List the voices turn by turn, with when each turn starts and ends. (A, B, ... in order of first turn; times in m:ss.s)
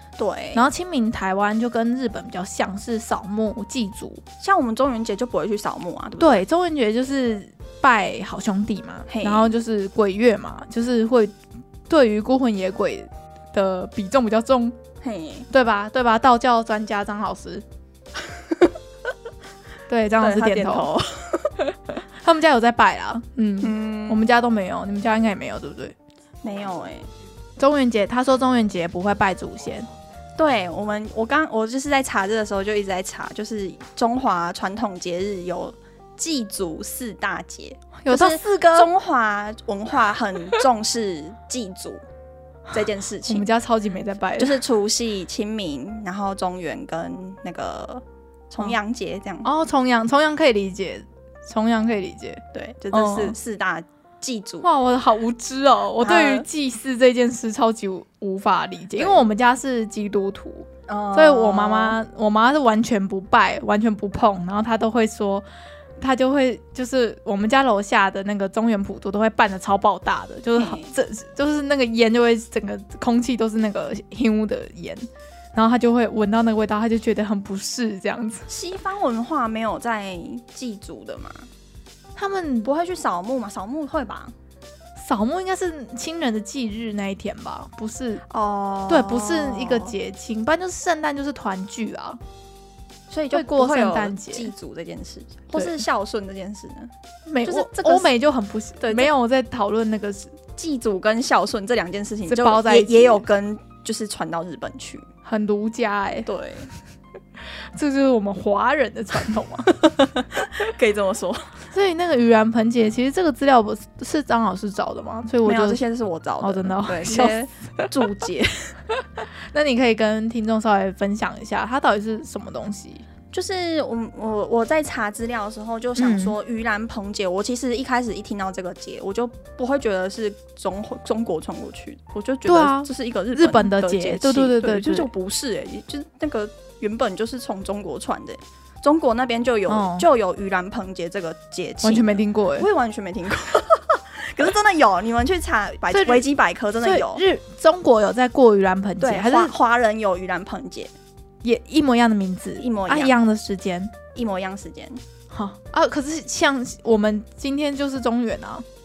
0:00.2-0:00.7 A
0:00.5-0:04.2 B
0:04.4-0:06.4 A
0:06.2-0:11.4 B
0:09.1-0:09.5 A
0:11.9-0:14.8 B
0:15.0-0:15.5 A
0:15.5-0:17.6 B
0:18.3-0:18.7 A
0:19.9-0:20.9 B
0:20.2-0:21.5 A
0:21.6-0:25.9 B
0:23.6-0:24.2 A
0:26.4-0:27.1 A
0:27.6-0:29.9 B
0:30.4-0:42.0 A
0:38.0-0:38.9 B
0:42.7-0:43.5 A
0:43.2-0:44.6 B
0:44.4-0:49.5 A
0:49.4-0:53.4 B
0:52.5-0:54.7 A
0:54.6-1:05.4 B
0:56.0-0:56.4 A
0:59.0-0:59.2 A
1:00.9-1:02.0 A
1:06.0-1:18.4 B
1:10.6-1:10.9 A
1:18.5-1:21.5 A
1:22.2-1:22.7 B
1:22.6-1:24.3 A
1:25.0-1:28.2 B
1:28.3-1:29.9 A
1:28.9-1:32.2 B
1:33.1-1:36.9 A
1:33.3-1:34.5 B
1:35.5-1:35.8 B
1:37.3-1:40.4 B
1:37.4-1:38.1 A
1:40.6-1:45.0 A
1:42.3-1:43.2 B
1:45.2-1:46.3 B
1:46.2-1:46.7 A
1:47.7-1:49.8 B
1:49.8-1:51.5 A
1:51.7-1:55.8 B
1:55.4-1:58.7 A
1:56.4-1:57.9 B
1:59.0-2:03.0 B
2:03.3-2:27.2 A
2:06.0-2:06.4 B
2:12.5-2:15.1 B
2:19.7-2:20.1 B
2:21.8-2:22.7 B
2:25.9-2:26.3 B
2:26.8-2:29.5 B
2:29.0-2:30.9 A
2:31.4-2:33.9 B
2:32.6-2:33.1 A
2:34.1-2:35.0 A
2:35.3-2:38.6 B